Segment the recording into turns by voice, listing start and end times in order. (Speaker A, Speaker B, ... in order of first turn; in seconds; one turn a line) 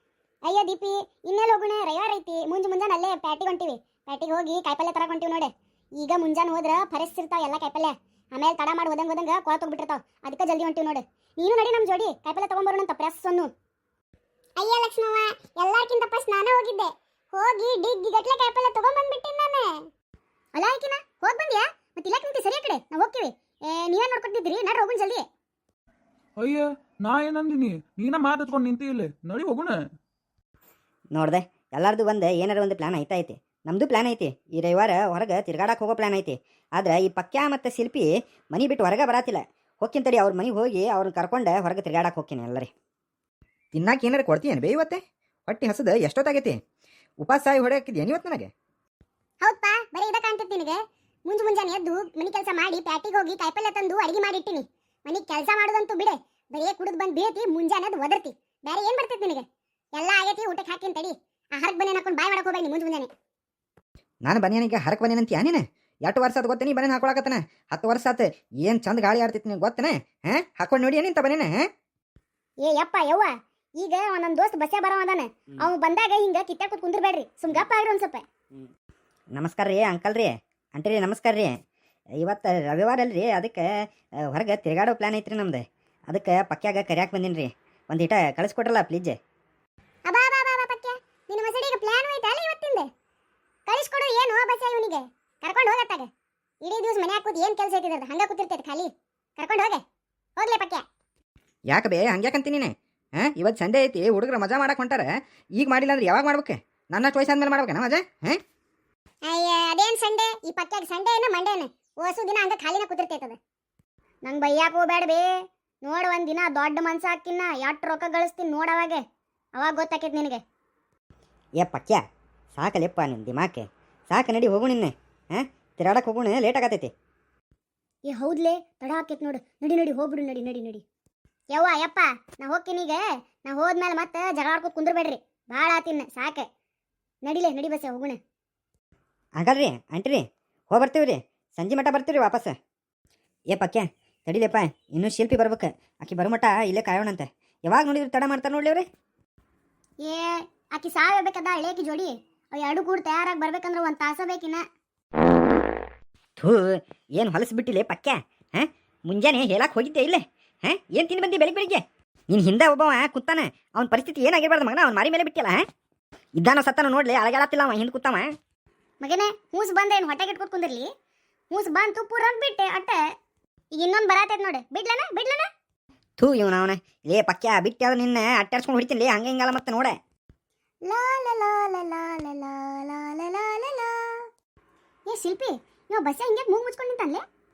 Speaker A: 0.5-13.5
Speaker A: 14.6-19.8
Speaker A: 20.6-25.2
Speaker B: 26.4-29.8
Speaker C: 31.1-42.7
Speaker D: 43.8-46.5
Speaker D: 47.2-48.5
Speaker A: 49.4-59.5
Speaker A: 60.0-63.1
Speaker D: 64.3-69.9
Speaker D: 70.5-71.5
Speaker A: 72.6-78.2
Speaker C: 79.4-81.5
Speaker C: 82.2-83.7
Speaker C: 84.3-89.2
Speaker A: 90.1-92.9
Speaker A: 93.7-96.1
Speaker A: 96.6-99.8
Speaker A: 100.4-100.8
Speaker D: 101.7-102.7
Speaker D: 103.4-105.0
Speaker D: 105.6-108.3
Speaker A: 109.3-113.4
Speaker A: 114.2-115.3
Speaker A: 115.8-119.0
Speaker A: 119.6-120.4
Speaker C: 121.6-122.0
Speaker C: 122.6-126.9
Speaker A: 128.1-130.8
Speaker A: 131.5-136.5
Speaker A: 137.2-138.2
Speaker C: 139.4-142.5
Speaker C: 143.5-148.8
Speaker A: 150.1-154.6
Speaker C: 156.4-165.6
Speaker C: 166.4-168.3
Speaker A: 169.0-170.9
Speaker A: 171.5-173.0
Speaker A: 173.8-175.5
Speaker C: 176.2-179.9
Speaker A: 180.9-184.0
Speaker A: 185.1-187.2